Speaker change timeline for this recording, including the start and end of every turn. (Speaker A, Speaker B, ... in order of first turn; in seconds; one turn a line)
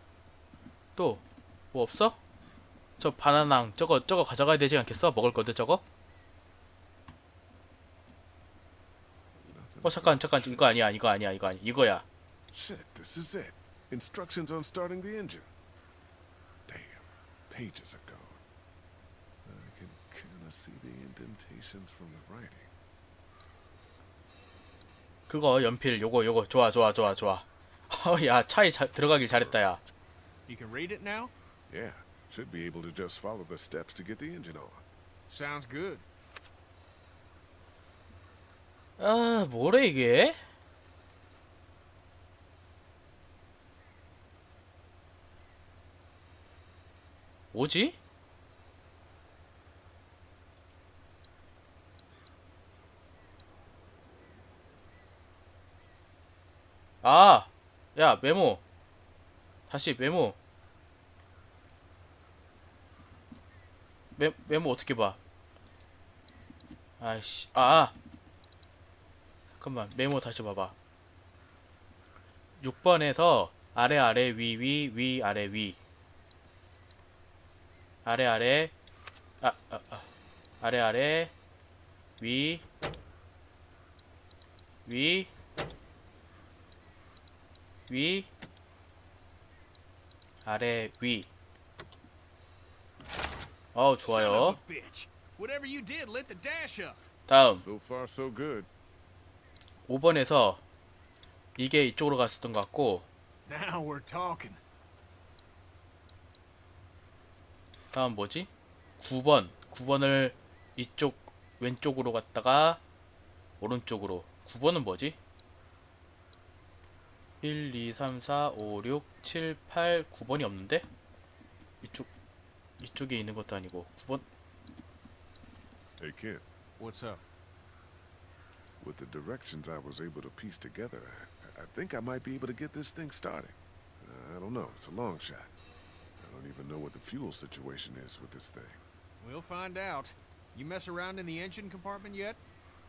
Speaker A: 0.9-2.2
Speaker A: 3.0-5.8
Speaker B: 9.5-10.8
Speaker A: 9.8-12.0
Speaker B: 12.5-15.5
Speaker B: 16.6-18.4
Speaker B: 19.4-22.7
Speaker A: 25.3-29.8
Speaker B: 29.2-29.9
Speaker C: 30.5-31.3
Speaker B: 31.7-34.8
Speaker C: 35.3-36.0
Speaker A: 39.0-40.4
Speaker A: 47.5-48.0
Speaker A: 57.0-58.6
Speaker A: 59.7-60.4
Speaker A: 64.2-65.2
Speaker A: 67.0-67.9
Speaker A: 69.6-70.7
Speaker A: 72.6-75.8
Speaker A: 78.0-78.7
Speaker A: 79.4-80.0
Speaker A: 80.6-81.3
Speaker A: 82.2-82.6
Speaker A: 84.8-85.3
Speaker A: 87.9-88.3
Speaker A: 90.4-91.3
Speaker A: 93.7-94.6
Speaker C: 94.0-97.0
Speaker A: 97.3-97.6
Speaker B: 97.5-98.7
Speaker A: 99.9-100.6
Speaker A: 101.6-103.0
Speaker C: 103.5-104.6
Speaker A: 107.9-112.8
Speaker A: 113.6-115.2
Speaker A: 117.4-120.8
Speaker A: 121.8-122.1
Speaker A: 122.8-124.2
Speaker B: 126.0-126.5
Speaker C: 126.8-127.2
Speaker B: 128.8-135.5
Speaker B: 136.2-138.8
Speaker C: 139.2-142.4